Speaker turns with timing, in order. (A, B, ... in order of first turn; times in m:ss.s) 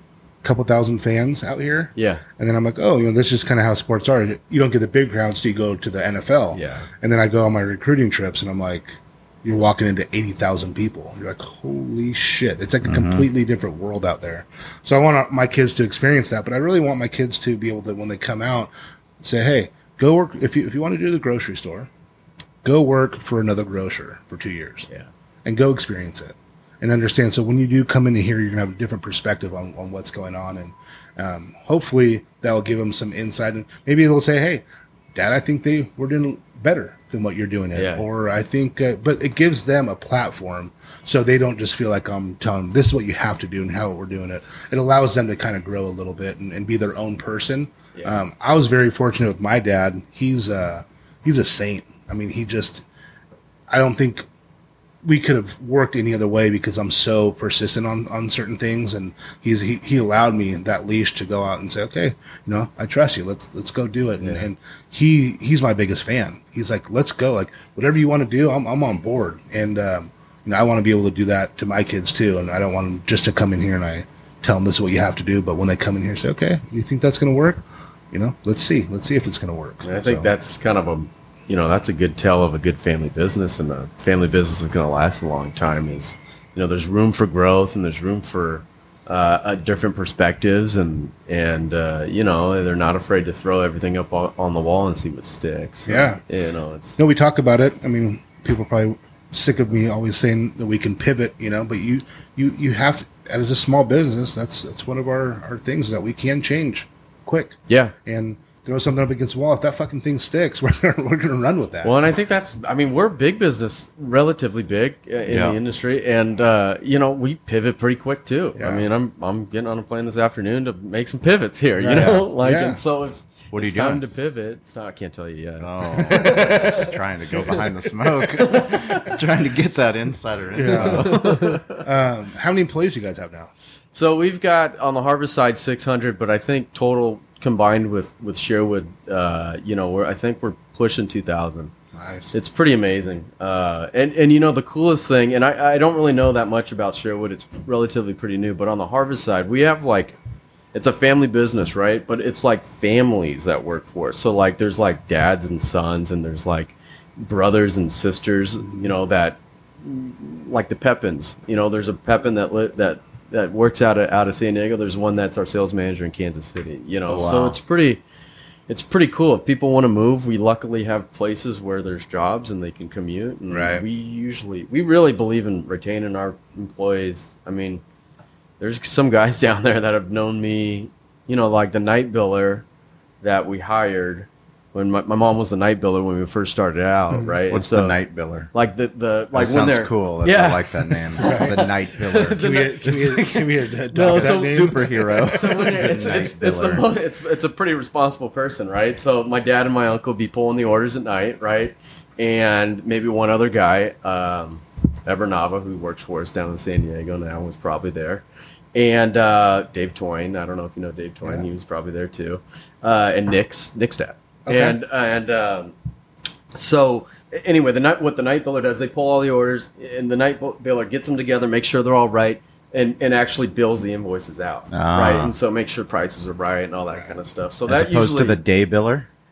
0:00.4-0:18.7 A
0:02.0-0:02.2 B
0:06.5-0:06.9 B
0:12.8-0:13.2 C
0:19.2-0:21.9 A
0:22.6-0:24.9 A
0:25.4-0:52.8 A
0:37.7-0:38.1 B
0:47.9-0:48.2 B
0:53.7-0:54.3 A
0:55.0-1:20.3 A
1:19.8-1:37.0 B
1:35.9-1:36.2 A
1:37.0-1:52.0 A
1:47.7-1:47.9 B
1:51.8-2:09.0 B
1:55.3-1:55.6 C
1:58.6-1:58.9 A
2:01.8-2:02.8 A
2:01.9-2:02.2 C
2:03.5-2:04.0 C
2:05.6-2:11.5 C
2:06.2-2:06.6 A
2:10.5-2:13.5 A
2:10.7-2:11.8 B
2:13.9-2:21.7 B
2:21.9-2:22.3 A
2:22.3-2:30.2 B
2:30.7-2:48.0 B
2:47.1-2:47.6 C
2:48.7-2:57.8 B
2:53.5-2:53.8 A
2:58.6-3:02.6 B
3:03.2-3:08.0 B
3:07.1-3:07.4 A
3:07.5-3:08.5 C
3:08.5-3:13.4 B
3:09.3-3:13.4 C
3:11.2-3:11.6 A
3:12.4-3:15.2 A
3:13.9-3:35.7 B
3:13.9-3:16.9 C
3:34.4-3:34.8 A
3:36.5-3:48.4 B
3:44.7-3:45.3 C
3:47.7-3:49.1 C